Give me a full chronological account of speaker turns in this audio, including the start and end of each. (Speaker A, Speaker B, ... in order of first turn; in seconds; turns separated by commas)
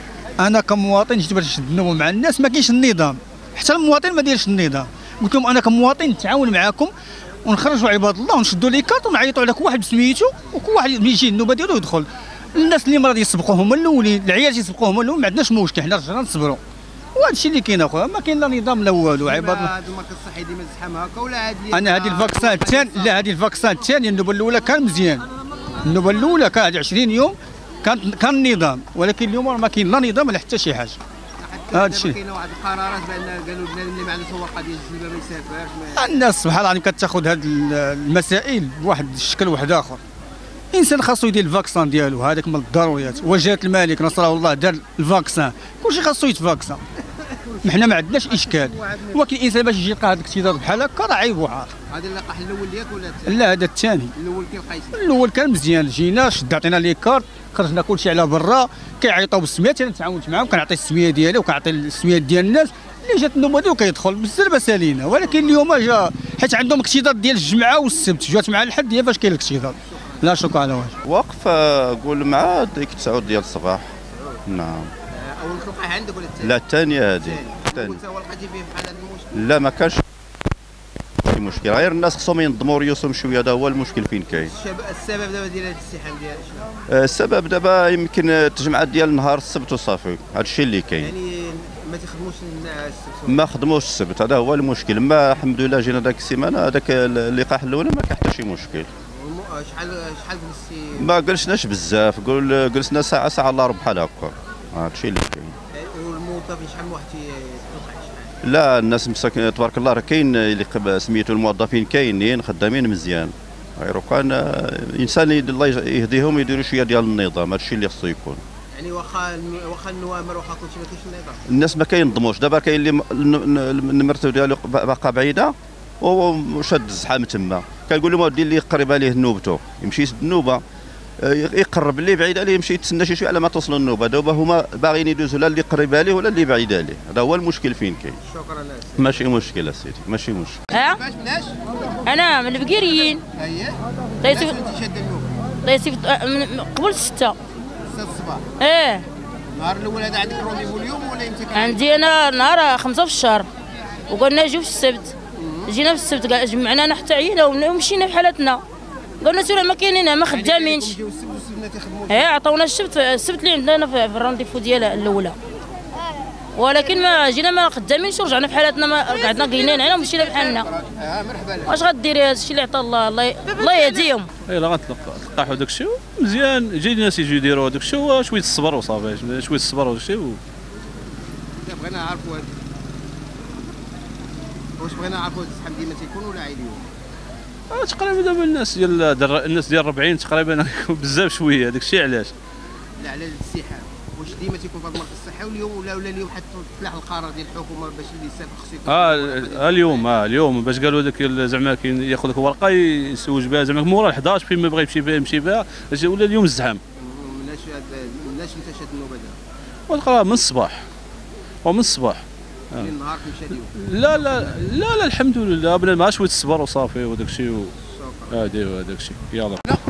Speaker A: 0.4-16.6, Speaker A: 17.1-19.7, Speaker B: 19.2-23.2, Speaker A: 21.7-31.0, Speaker B: 31.4-36.1, Speaker A: 31.7-32.2, Speaker A: 35.9-40.0, Speaker A: 40.7-46.8, Speaker B: 47.2-49.2, Speaker A: 47.6-51.7, Speaker B: 51.9-53.5, Speaker A: 53.3-54.1, Speaker B: 54.1-55.0, Speaker A: 54.9-70.9, Speaker B: 65.3-65.5, Speaker B: 69.8-70.3, Speaker C: 71.0-73.9, Speaker B: 74.1-74.4, Speaker C: 74.5-74.9, Speaker B: 75.1-76.6, Speaker C: 76.4-78.0, Speaker B: 77.2-79.6, Speaker C: 79.4-80.0, Speaker C: 81.2-84.5, Speaker B: 84.4-86.7, Speaker C: 86.9-91.1, Speaker B: 91.0-93.5, Speaker C: 93.3-98.9, Speaker B: 99.1-101.1, Speaker C: 101.0-105.6, Speaker B: 105.7-108.4, Speaker C: 108.4-118.4, Speaker B: 118.7-121.4, Speaker C: 121.5-130.6, Speaker C: 131.2-138.2, Speaker B: 138.2-139.3, Speaker C: 139.0-140.6, Speaker B: 140.7-141.6, Speaker D: 140.8-141.0, Speaker D: 142.0-143.2, Speaker B: 142.5-145.4, Speaker D: 144.2-144.6, Speaker D: 145.6-147.4, Speaker B: 147.8-148.4, Speaker D: 148.6-149.1, Speaker B: 149.5-152.0, Speaker D: 151.5-153.5, Speaker D: 154.1-155.2, Speaker B: 155.4-155.8, Speaker D: 155.7-158.6, Speaker D: 159.2-161.0, Speaker B: 160.3-162.3, Speaker D: 162.1-165.4, Speaker D: 166.6-170.7, Speaker B: 169.1-171.9, Speaker D: 171.7-174.3, Speaker E: 174.5-180.4, Speaker B: 181.6-182.6, Speaker B: 184.8-186.9, Speaker E: 187.7-192.3, Speaker B: 193.0-200.2, Speaker E: 198.9-206.8, Speaker B: 207.0-209.4, Speaker E: 209.9-210.8, Speaker E: 211.6-212.9, Speaker B: 212.7-214.6, Speaker E: 213.8-217.7, Speaker B: 217.8-218.4, Speaker E: 218.3-219.6